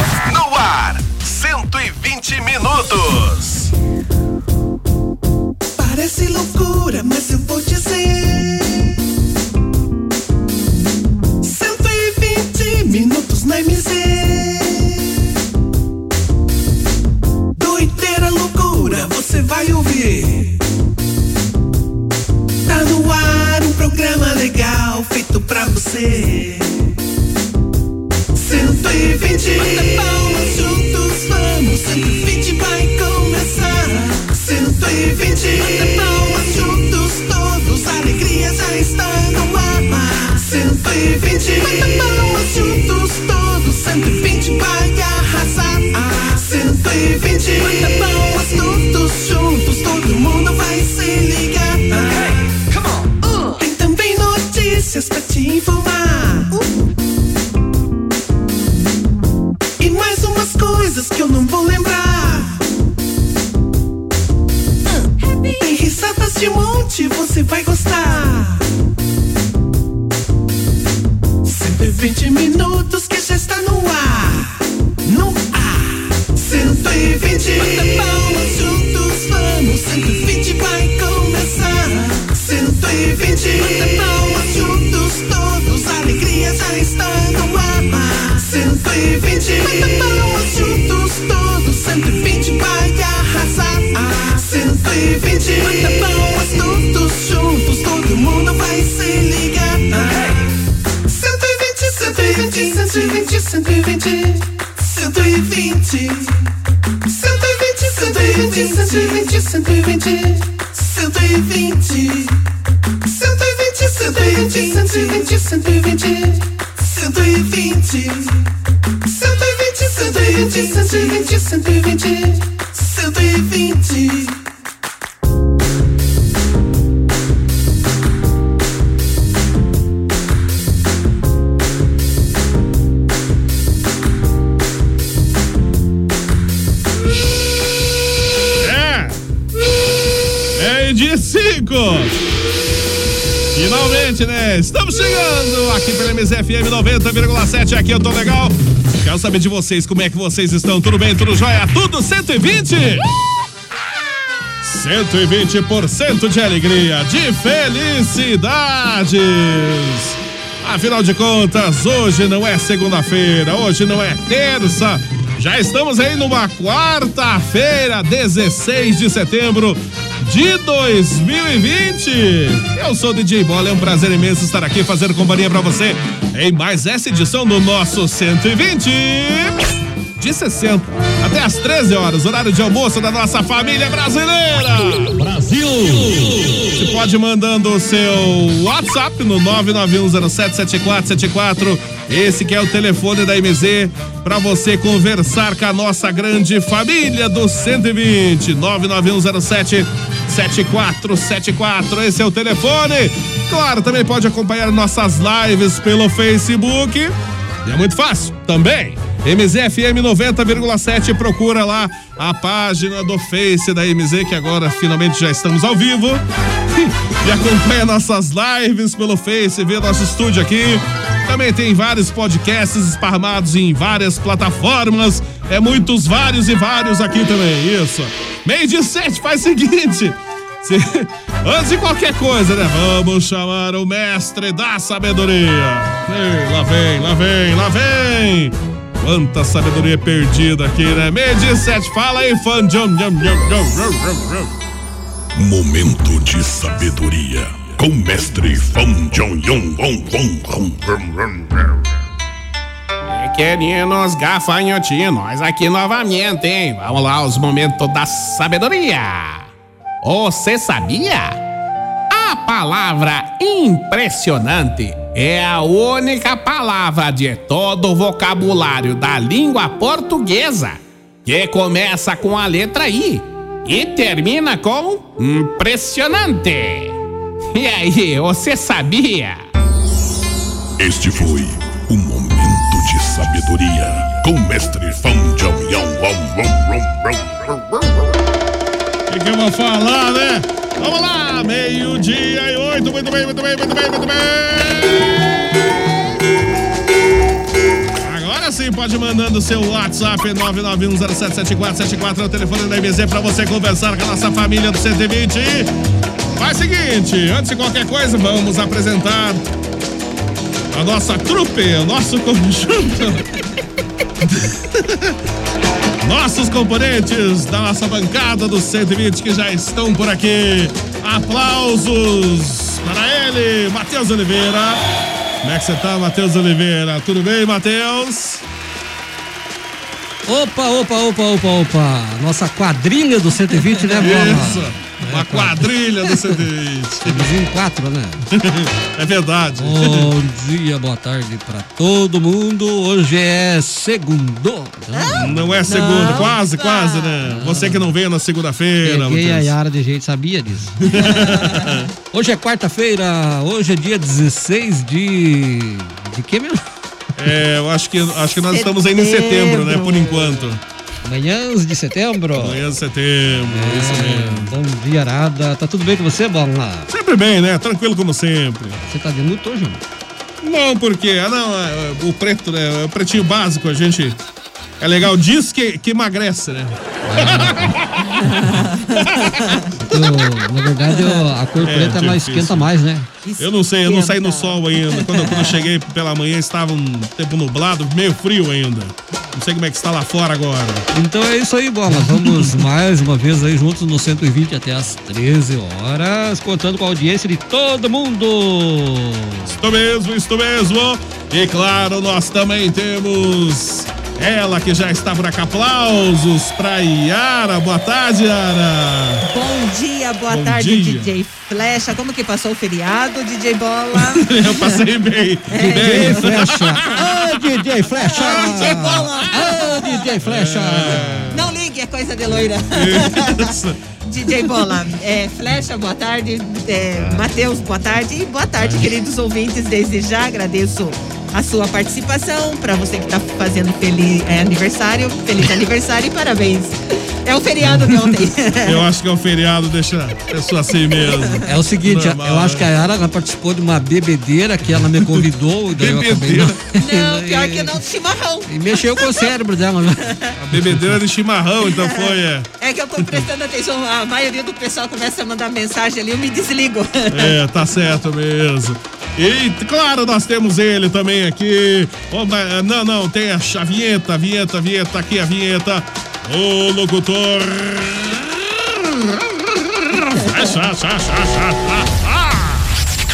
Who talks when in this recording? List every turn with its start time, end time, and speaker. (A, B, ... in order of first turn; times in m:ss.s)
0:01.2-0:03.7 A
0:05.8-0:08.9 B
0:11.4-0:15.0 B
0:17.6-0:20.6 B
0:22.6-0:26.8 B
0:28.3-0:52.6 B
0:53.5-0:56.6 B
0:59.8-1:02.6 B
1:05.2-1:05.6 C
1:05.6-1:08.6 B
1:11.4-1:40.5 B
1:41.0-1:46.5 B
1:47.1-1:52.4 B
1:53.0-1:58.4 B
1:59.0-2:04.4 B
2:18.6-2:19.2 A
2:20.6-2:22.2 A
2:23.6-2:33.1 A
2:34.6-2:59.6 A
3:00.2-3:05.3 A
3:05.8-3:27.2 A
3:27.7-3:36.2 A
3:36.8-4:04.5 A
4:05.4-4:11.8 D
4:13.1-4:19.5 E
4:20.0-4:21.4 E
4:22.1-4:37.0 E
4:37.5-4:39.4 E
4:40.8-4:48.0 D
4:49.1-4:55.4 A
4:58.0-5:05.7 A
5:06.4-5:09.4 A
5:10.7-5:13.2 A
5:14.3-5:15.1 A
5:16.0-5:24.8 A
5:25.4-5:28.4 A
5:30.3-5:35.7 F
5:34.0-5:37.3 A
5:37.1-5:38.2 F
5:38.3-5:40.1 A
5:39.6-5:46.2 F
5:44.9-5:47.2 C
5:45.1-5:49.5 A
5:47.3-5:47.9 F
5:48.8-5:50.8 F
5:50.9-5:51.8 A
5:51.0-5:51.4 C
5:52.1-5:56.6 F
5:57.2-6:00.6 A
5:58.5-6:00.4 C
6:01.0-6:02.6 F
6:02.3-6:04.5 A
6:03.5-6:06.9 F
6:06.9-6:08.8 A
6:08.9-6:09.8 F
6:10.4-6:14.2 A
6:14.8-6:18.1 A
6:17.1-6:17.7 F
6:18.2-6:19.6 C
6:19.9-6:23.1 F
6:21.0-6:21.2 C
6:21.6-6:22.7 A
6:23.2-6:25.5 C
6:23.4-6:30.9 A
6:30.9-6:39.6 F
6:31.9-6:32.5 A
6:39.5-6:49.2 A
6:49.3-6:54.8 C
6:50.3-6:51.2 A
6:54.1-6:57.2 A
6:55.5-6:57.2 C
6:55.6-7:01.2 F
6:58.0-7:00.0 C
6:58.1-6:59.5 A
7:00.2-7:01.5 A
7:01.3-7:03.5 C
7:02.7-7:03.8 A
7:04.0-7:18.8 C
7:18.6-7:22.7 A
7:21.5-7:27.7 F
7:25.8-7:26.6 A
7:26.8-7:29.3 C
7:28.5-7:30.0 F
7:30.4-7:32.5 A
7:32.6-7:37.4 C
7:37.1-7:52.7 A